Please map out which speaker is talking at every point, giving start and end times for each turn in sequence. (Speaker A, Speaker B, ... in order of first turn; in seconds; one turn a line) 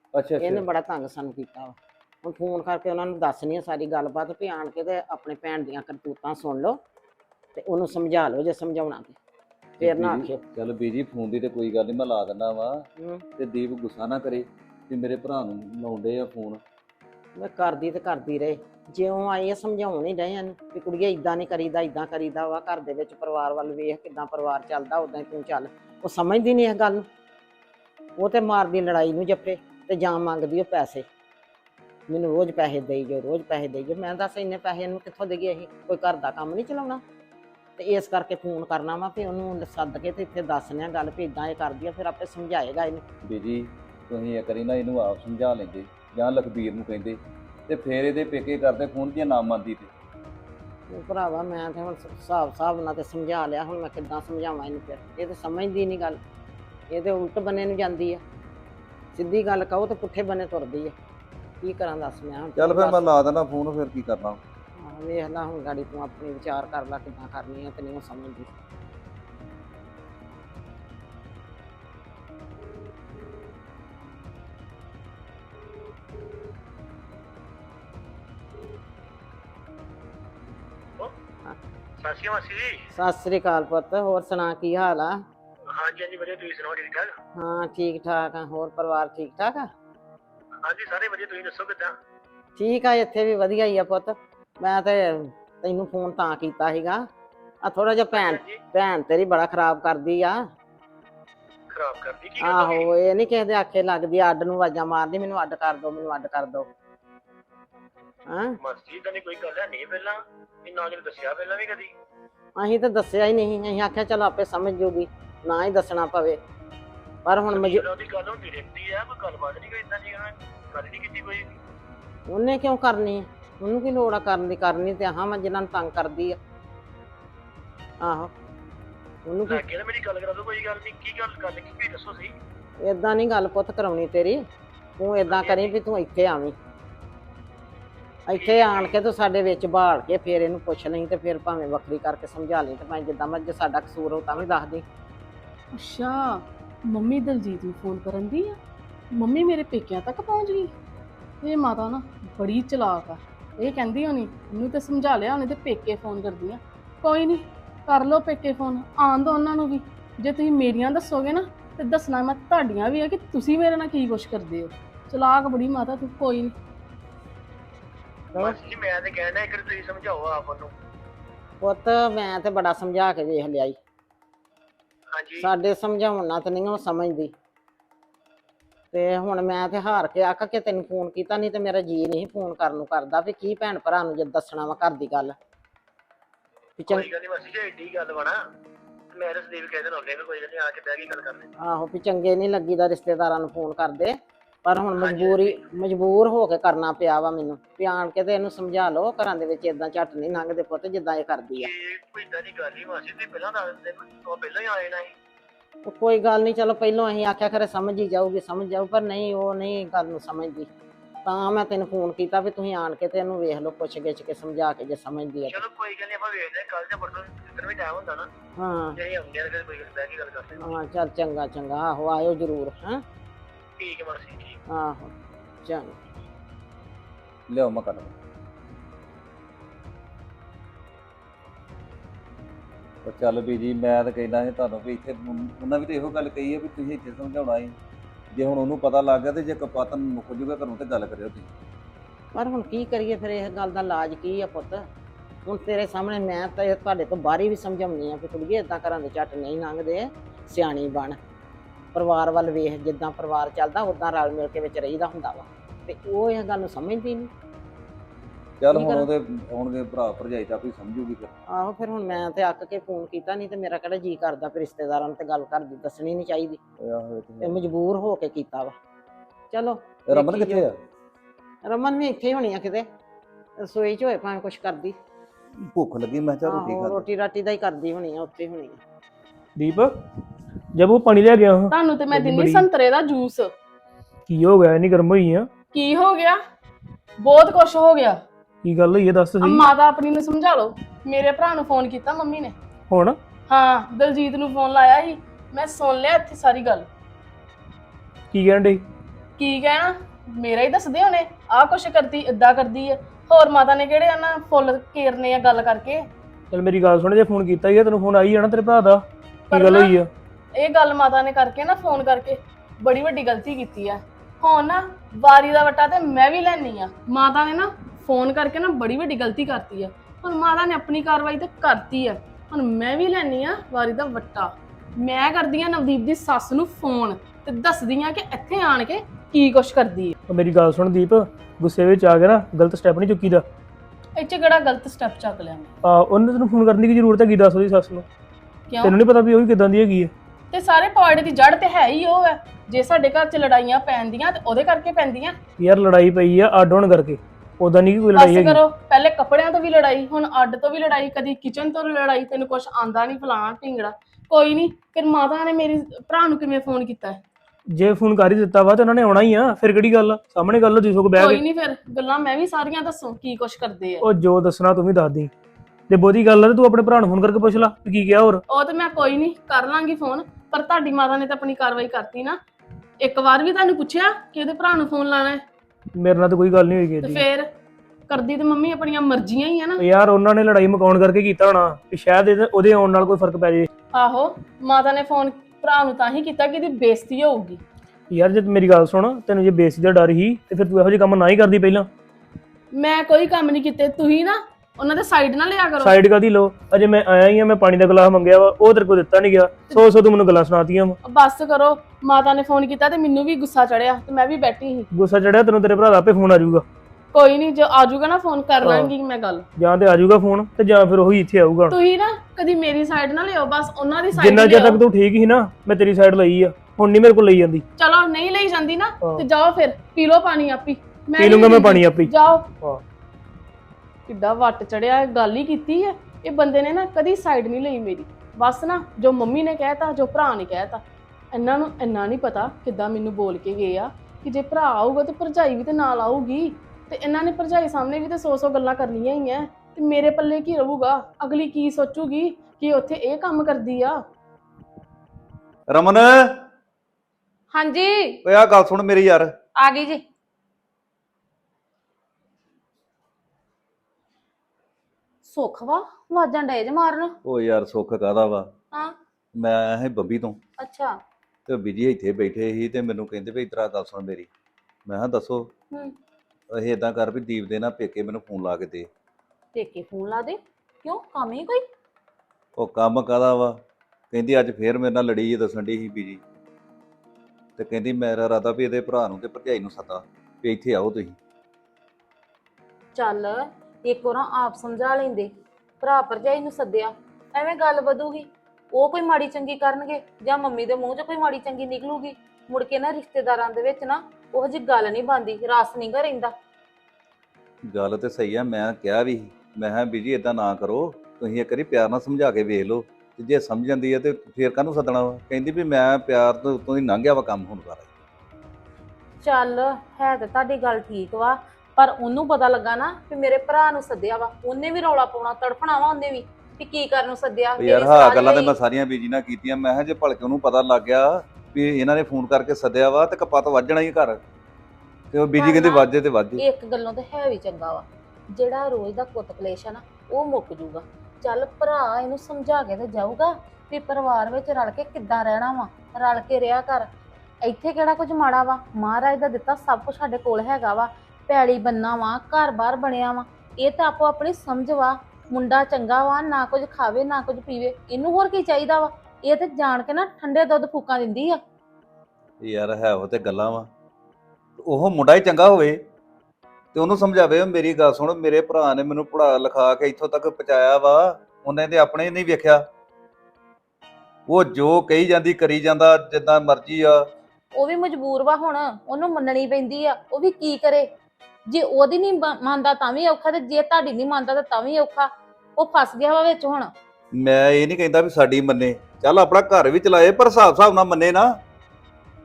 Speaker A: 0.1-0.7
Speaker B: 0.4-6.8
Speaker B: 7.5-9.2
Speaker B: 9.8-10.4
Speaker A: 9.8-16.6
Speaker B: 13.0-13.2
Speaker B: 17.4-27.1
Speaker B: 28.2-31.1
Speaker B: 32.1-37.0
Speaker B: 37.8-43.0
Speaker A: 43.2-49.9
Speaker B: 50.9-56.2
Speaker B: 56.9-58.2
Speaker B: 59.1-60.9
Speaker B: 61.6-63.0
Speaker A: 62.5-64.4
Speaker B: 64.8-68.5
Speaker C: 82.0-82.9
Speaker B: 82.9-85.2
Speaker C: 85.7-87.1
Speaker B: 87.3-89.7
Speaker C: 90.6-91.9
Speaker B: 92.6-97.1
Speaker B: 97.6-100.4
Speaker C: 98.1-98.6
Speaker C: 101.7-102.9
Speaker B: 102.4-106.7
Speaker B: 108.3-108.6
Speaker C: 108.6-111.9
Speaker B: 112.6-116.4
Speaker B: 117.2-117.8
Speaker C: 117.5-121.5
Speaker B: 122.3-126.4
Speaker B: 128.0-128.3
Speaker B: 129.2-129.6
Speaker C: 129.5-132.3
Speaker B: 132.8-134.4
Speaker B: 135.0-136.6
Speaker C: 135.3-135.8
Speaker B: 138.3-144.8
Speaker C: 138.3-138.9
Speaker D: 145.7-148.6
Speaker D: 149.1-150.7
Speaker D: 151.4-166.5
Speaker C: 168.3-170.7
Speaker B: 171.6-173.8
Speaker C: 175.1-175.5
Speaker B: 175.4-177.3
Speaker B: 178.9-185.3
Speaker B: 186.8-187.1
Speaker C: 186.9-188.4
Speaker C: 189.1-191.5
Speaker B: 191.6-201.7
Speaker C: 195.0-195.6
Speaker C: 201.6-205.1
Speaker B: 205.8-210.7
Speaker B: 211.2-215.6
Speaker C: 215.5-218.3
Speaker B: 218.6-219.0
Speaker C: 218.9-220.7
Speaker B: 220.6-223.0
Speaker C: 223.8-224.6
Speaker B: 224.7-225.1
Speaker B: 225.6-225.9
Speaker A: 227.5-228.2
Speaker A: 233.0-237.7
Speaker A: 238.3-241.5
Speaker B: 242.3-244.8
Speaker B: 245.4-251.2
Speaker B: 251.9-257.3
Speaker A: 258.6-261.3
Speaker B: 258.7-259.1
Speaker B: 261.5-266.6
Speaker A: 266.8-267.7
Speaker B: 267.4-268.7
Speaker B: 269.5-270.6
Speaker A: 270.1-270.8
Speaker B: 271.6-272.9
Speaker B: 273.6-274.9
Speaker A: 275.6-277.0
Speaker B: 276.4-278.8
Speaker E: 279.6-279.9
Speaker E: 280.7-282.7
Speaker D: 281.7-283.5
Speaker E: 284.3-285.5
Speaker D: 285.7-286.4
Speaker D: 287.2-288.2
Speaker E: 288.6-289.6
Speaker D: 289.4-292.6
Speaker E: 292.9-293.2
Speaker D: 293.5-296.9
Speaker E: 298.3-298.8
Speaker D: 299.4-306.0
Speaker E: 306.5-310.1
Speaker D: 309.5-310.0
Speaker D: 310.6-330.1
Speaker E: 330.3-333.4
Speaker D: 334.2-335.7
Speaker E: 335.8-338.1
Speaker D: 338.7-339.0
Speaker E: 338.8-340.1
Speaker D: 340.5-345.4
Speaker E: 345.6-348.6
Speaker D: 348.1-357.2
Speaker E: 357.7-361.4
Speaker D: 361.1-364.0
Speaker E: 364.0-365.3
Speaker E: 365.9-368.4
Speaker D: 368.5-372.4
Speaker D: 373.0-375.4
Speaker E: 375.9-377.2
Speaker D: 377.0-377.5
Speaker D: 378.1-379.8
Speaker E: 379.8-383.7
Speaker D: 383.9-387.6
Speaker E: 388.1-391.9
Speaker D: 392.7-396.0
Speaker E: 395.8-401.0
Speaker D: 401.0-404.9
Speaker E: 404.9-406.6
Speaker D: 407.1-409.5
Speaker E: 408.6-408.9
Speaker E: 409.6-411.8
Speaker D: 411.7-414.8
Speaker E: 414.1-417.6
Speaker D: 417.8-422.5
Speaker E: 421.2-422.8
Speaker D: 424.1-444.0
Speaker A: 445.7-446.4
Speaker F: 447.5-448.2
Speaker A: 448.2-449.3
Speaker F: 449.6-450.0
Speaker F: 455.2-457.1
Speaker A: 457.2-458.5
Speaker A: 459.3-460.4
Speaker F: 460.6-461.0
Speaker A: 461.4-464.3
Speaker A: 464.9-465.5
Speaker A: 466.5-468.9
Speaker F: 469.5-471.6
Speaker A: 472.6-473.6
Speaker A: 474.1-476.2
Speaker A: 477.6-481.2
Speaker F: 482.9-496.3
Speaker A: 497.7-507.9
Speaker F: 509.2-518.5
Speaker A: 517.6-524.2
Speaker A: 525.1-526.4
Speaker F: 525.4-536.9
Speaker F: 537.4-551.4
Speaker A: 552.4-553.7
Speaker A: 554.6-555.8
Speaker A: 556.7-562.6
Speaker A: 564.3-567.0
Speaker F: 567.5-570.9
Speaker F: 571.5-576.7
Speaker A: 577.1-581.4